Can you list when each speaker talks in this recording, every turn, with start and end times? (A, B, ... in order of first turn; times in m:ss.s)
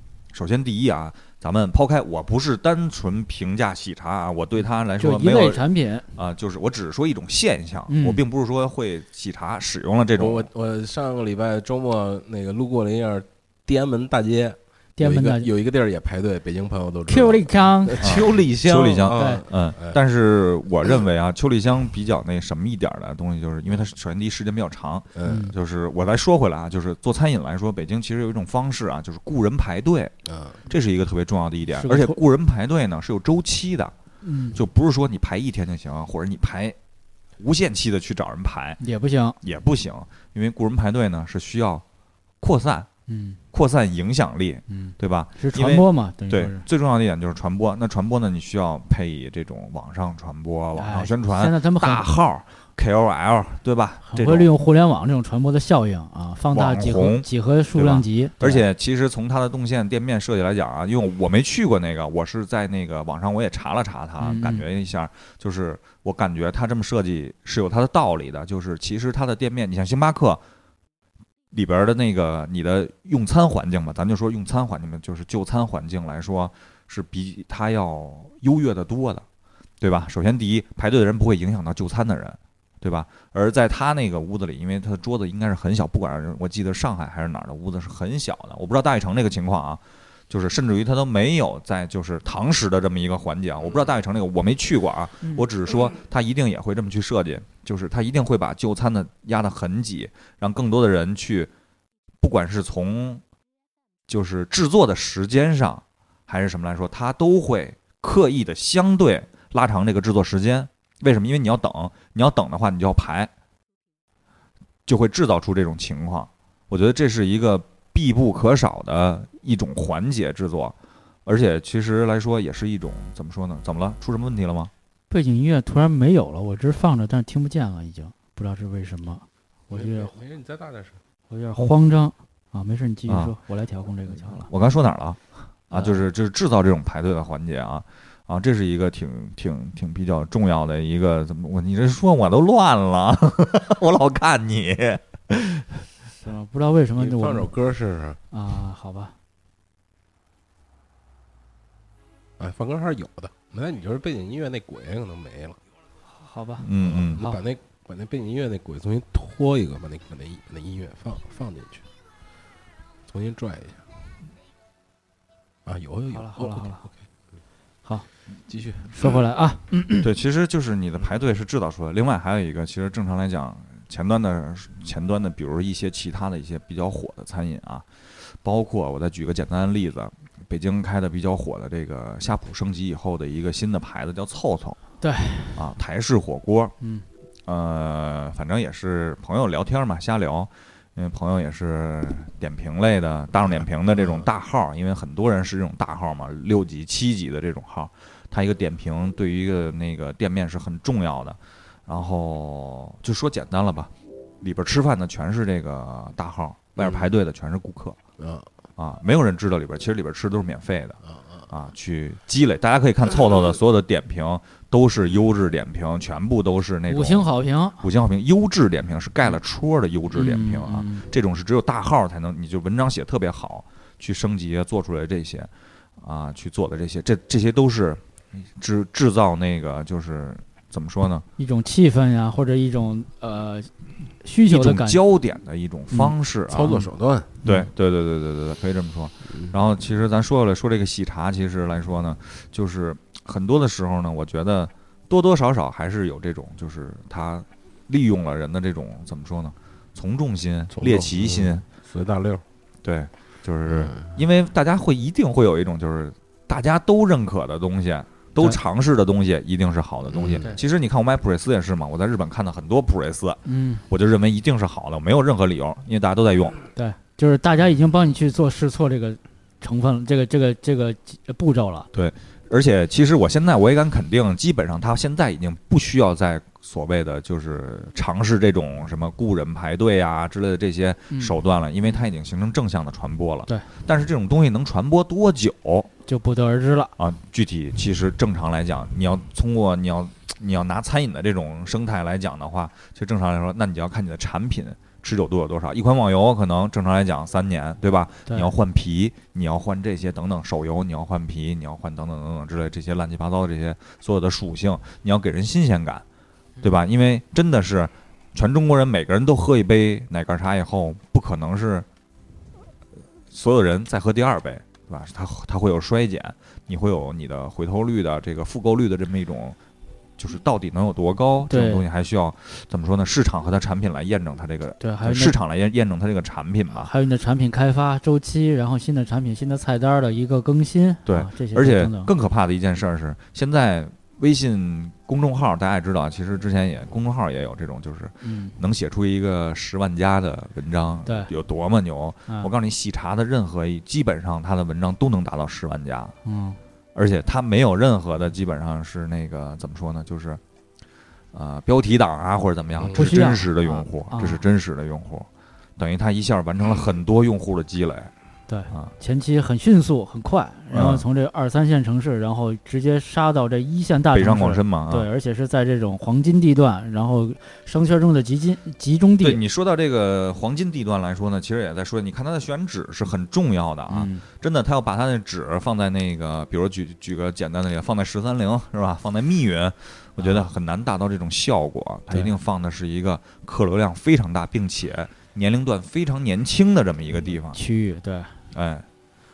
0:00.3-0:05.6 A
0:05.0-0:06.1 B
0:06.1-0:10.5 A
0:07.9-0:08.2 B
0:10.2-0:20.0 C
0:15.0-0:15.5 B
0:17.1-0:18.1 B
0:18.0-0:30.1 A
0:19.1-0:19.4 B
0:25.2-0:25.4 C
0:25.2-0:25.5 B
0:30.2-0:30.6 C
0:30.7-0:33.9 A
0:31.8-0:32.2 B
0:34.2-0:34.6 B
0:34.5-0:36.8 A
0:37.4-0:38.8 A
0:38.8-0:39.4 B
0:39.4-0:41.8 A
0:42.4-0:42.9 A
0:43.1-0:43.4 B
0:43.5-0:54.5 A
0:44.7-0:46.6 B
0:50.8-0:52.0 B
0:54.1-0:58.6 B
0:56.5-1:10.4 A
1:04.2-1:04.6 B
1:11.5-1:19.2 A
1:19.8-1:41.5 A
1:42.2-1:43.2 A
1:44.1-1:53.3 A
1:54.8-2:00.7 A
2:01.2-2:04.7 A
2:05.1-2:10.1 B
2:09.7-2:11.0 C
2:11.3-2:14.5 B
2:13.1-2:13.3 A
2:14.1-2:25.7 A
2:15.7-2:16.0 B
2:26.2-2:27.5 B
2:27.0-2:28.2 C
2:28.3-2:29.1 B
2:32.4-2:35.6 C
2:36.2-2:36.6 B
2:36.6-2:37.2 A
2:36.8-2:41.8 C
2:43.1-2:43.8 C
2:45.6-2:46.9 C
2:46.1-2:46.8 B
2:48.5-2:49.0 C
2:48.9-2:50.1 B
2:50.0-2:57.8 A
2:58.4-3:04.8 A
3:05.0-3:05.6 B
3:05.5-3:06.7 A
3:07.4-3:28.0 A
3:26.8-3:27.1 C
3:28.2-3:28.5 C
3:28.8-3:31.0 A
3:31.5-3:37.3 A
3:36.9-3:37.8 B
3:37.8-3:45.5 A
3:40.1-3:41.1 B
3:46.0-3:51.2 A
3:51.4-3:53.7 B
3:54.2-3:55.0 B
3:54.5-3:56.8 A
3:56.5-3:57.4 C
3:57.4-4:11.6 A
4:10.7-4:12.4 C
4:12.8-4:26.6 A
4:13.6-4:14.1 C
4:20.1-4:20.5 C
4:23.4-4:23.8 B
4:26.7-4:31.9 B
4:31.9-4:45.9 A
4:41.1-4:42.0 B
4:46.1-4:46.9 B
4:47.0-5:06.0 A
5:06.6-5:11.8 A
5:13.3-5:19.6 A
5:20.2-5:26.9 A
5:21.5-5:21.8 B
5:24.8-5:25.4 B
5:26.8-5:32.1 B
5:31.0-5:46.1 A
5:38.2-5:38.5 B
5:46.2-5:46.6 B
5:46.9-5:50.4 A
5:51.3-5:58.1 A
5:52.8-5:53.0 C
5:52.9-5:54.4 B
5:58.5-6:09.4 B
6:00.7-6:01.0 A
6:04.1-6:05.1 A
6:09.2-6:27.6 A
6:13.9-6:14.2 B
6:20.2-6:20.5 B
6:27.5-6:28.4 B
6:28.5-6:28.8 A